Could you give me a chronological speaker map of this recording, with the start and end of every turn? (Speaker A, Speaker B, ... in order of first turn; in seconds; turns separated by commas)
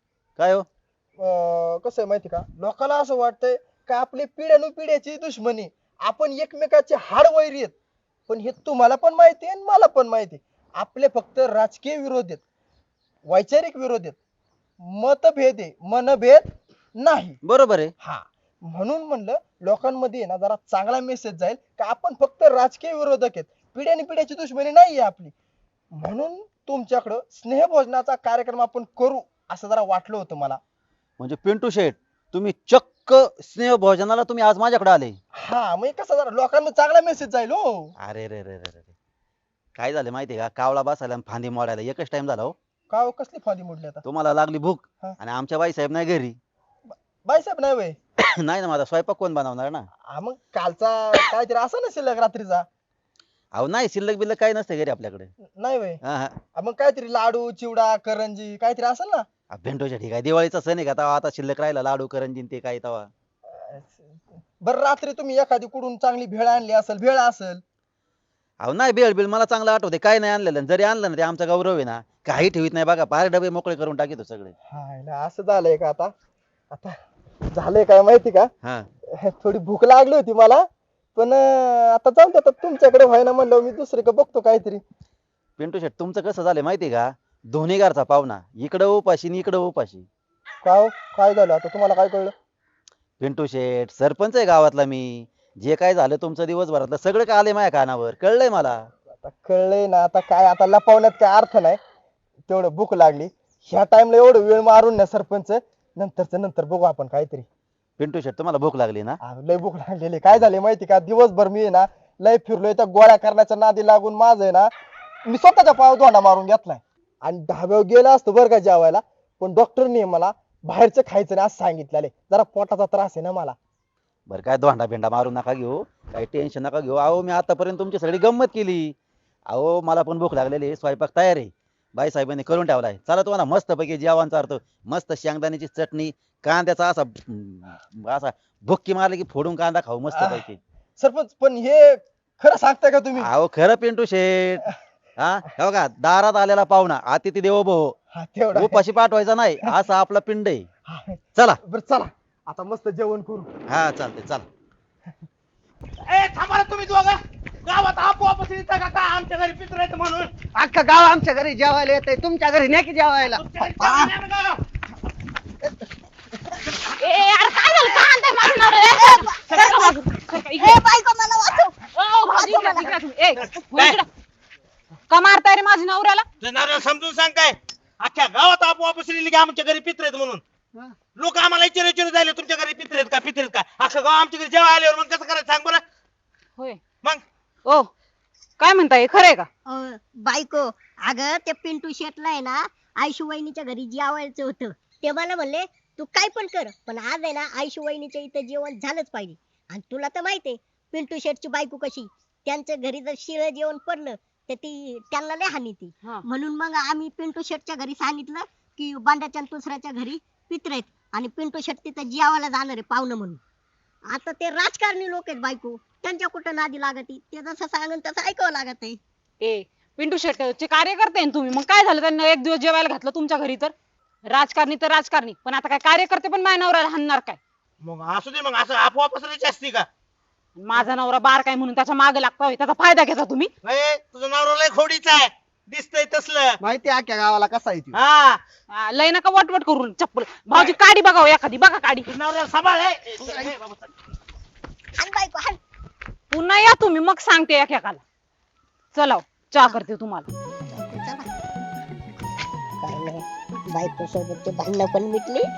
Speaker A: 0.4-0.7, Speaker B: 1.2-7.7, Speaker B: 8.3-12.4, Speaker B: 13.3-14.2, Speaker B: 14.8-17.4, Speaker A: 17.4-17.9, Speaker B: 18.0-25.3, Speaker B: 25.9-30.6, Speaker A: 31.2-35.2, Speaker B: 35.4-37.9, Speaker A: 38.0-38.9, Speaker A: 39.8-42.5, Speaker B: 42.9-44.0, Speaker A: 44.0-46.4, Speaker B: 46.9-48.0, Speaker A: 48.2-49.9, Speaker B: 50.1-52.7, Speaker A: 53.5-55.3, Speaker B: 55.6-56.0, Speaker A: 56.0-56.4, Speaker B: 56.5-59.3, Speaker A: 59.5-63.1, Speaker B: 63.5-64.1, Speaker B: 64.6-67.6, Speaker A: 68.6-74.5, Speaker B: 74.7-76.1, Speaker B: 77.5-78.5, Speaker B: 79.2-80.7, Speaker B: 81.2-84.8, Speaker A: 85.6-90.1, Speaker B: 90.6-92.3, Speaker A: 93.2-98.9, Speaker B: 99.2-101.8, Speaker B: 102.5-107.5, Speaker A: 108.0-109.2, Speaker B: 109.2-114.7, Speaker B: 115.3-123.6, Speaker A: 124.3-128.9, Speaker A: 129.5-140.6, Speaker B: 140.1-140.5, Speaker B: 141.0-143.3, Speaker A: 143.2-147.9, Speaker B: 148.1-148.8, Speaker A: 148.6-150.7, Speaker B: 150.9-153.5, Speaker A: 153.7-154.5, Speaker C: 156.1-160.3, Speaker D: 160.6-163.4, Speaker C: 163.3-164.6, Speaker E: 167.0-170.8, Speaker F: 169.1-169.4, Speaker F: 170.6-171.4, Speaker G: 170.7-171.7, Speaker E: 172.0-174.1, Speaker G: 172.6-172.9, Speaker E: 175.1-176.2, Speaker C: 176.4-180.4, Speaker C: 181.2-185.8, Speaker E: 186.6-186.8, Speaker E: 188.6-189.5, Speaker G: 189.7-213.3, Speaker G: 214.2-218.9, Speaker E: 219.4-223.7, Speaker E: 224.3-227.4, Speaker C: 227.8-229.9, Speaker E: 230.6-233.5, Speaker C: 233.6-236.6, Speaker D: 236.8-237.7, Speaker C: 237.9-238.4, Speaker E: 238.7-242.1, Speaker C: 242.1-243.9, Speaker F: 245.1-245.6, Speaker E: 246.3-248.0, Speaker E: 248.9-250.3, Speaker G: 250.8-251.1, Speaker F: 252.9-255.1